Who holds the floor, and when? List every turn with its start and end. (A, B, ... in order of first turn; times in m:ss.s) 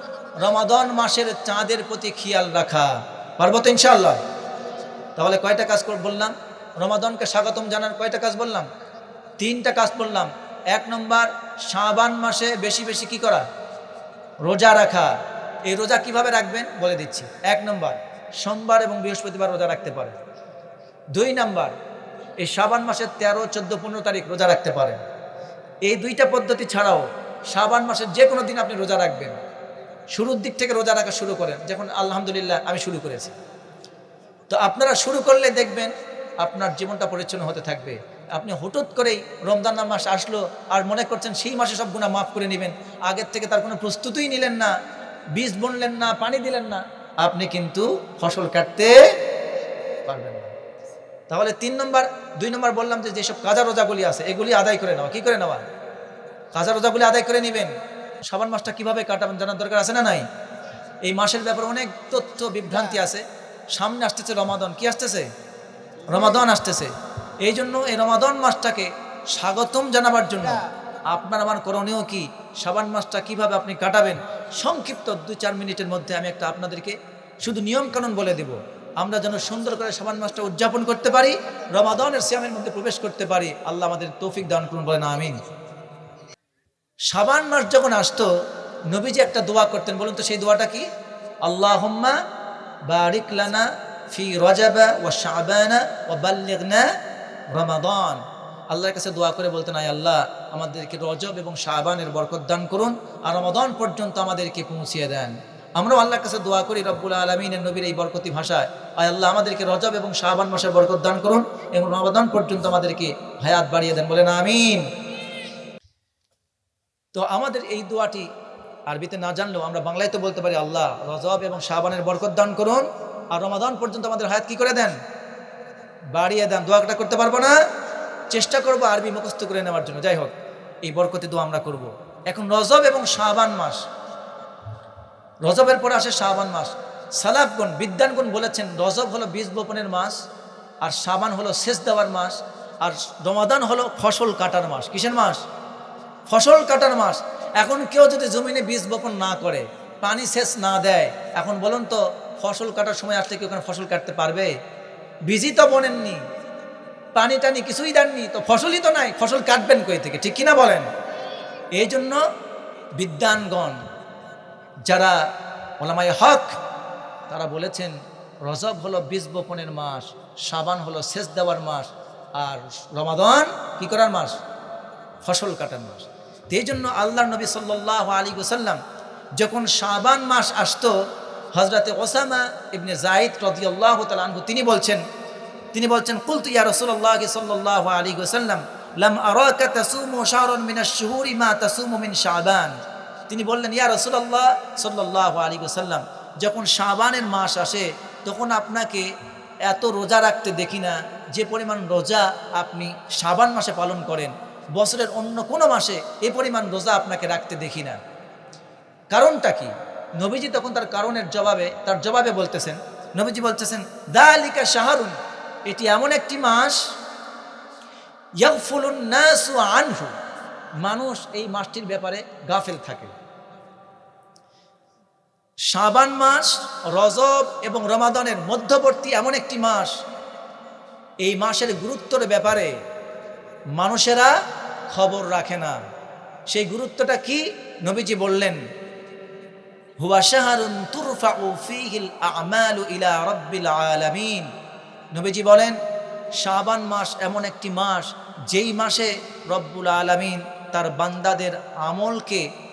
0:00.4-0:04.2 A
0:05.2-0:08.7 A
0:09.4-0:13.4 A
0:14.4-0:15.1 A
0:15.7-0:20.2 A
0:21.1-0:21.7 A
0:22.4-0:25.0 A
0:25.8-0:29.4 A
0:30.1-0:33.3 A
0:34.5-0:44.7 A
0:45.3-0:49.0 A
0:50.0-0:50.5 A
0:51.3-0:55.6 A
0:56.5-0:57.7 A
0:58.2-1:00.2 A
1:01.0-1:05.3 A
1:06.1-1:06.9 A
1:07.4-1:25.4 A
1:27.1-1:28.3 A
1:28.9-1:30.9 A
1:31.4-1:32.2 A
1:32.9-1:36.9 A
1:37.5-1:54.8 A
1:57.1-1:58.2 A
1:58.9-2:05.0 A
2:06.1-2:07.6 A
2:08.3-2:10.3 A
2:10.8-2:13.8 A
2:15.4-2:20.2 A
2:20.8-2:25.4 A
2:26.3-2:34.5 A
2:35.3-2:36.2 A
2:37.2-2:40.9 A
2:41.8-2:42.2 A
2:43.0-2:43.8 A
2:44.9-2:45.2 A
2:45.8-2:46.6 A
2:47.3-2:47.9 A
2:48.4-2:54.4 A
2:55.2-2:58.8 A
2:59.4-3:00.9 A
3:01.5-3:05.0 A
3:05.7-3:12.8 A
3:13.3-3:19.0 A
3:19.6-3:28.0 A
3:29.1-3:35.2 A
3:35.7-3:36.8 A
3:38.4-3:40.1 A
3:40.8-3:43.1 A
3:45.7-3:49.9 A
3:51.2-3:52.7 A
3:53.8-3:54.3 A
3:54.9-3:55.8 A
3:56.5-3:58.6 A
4:00.0-4:04.5 A
4:05.1-4:05.8 A
4:06.4-4:12.4 A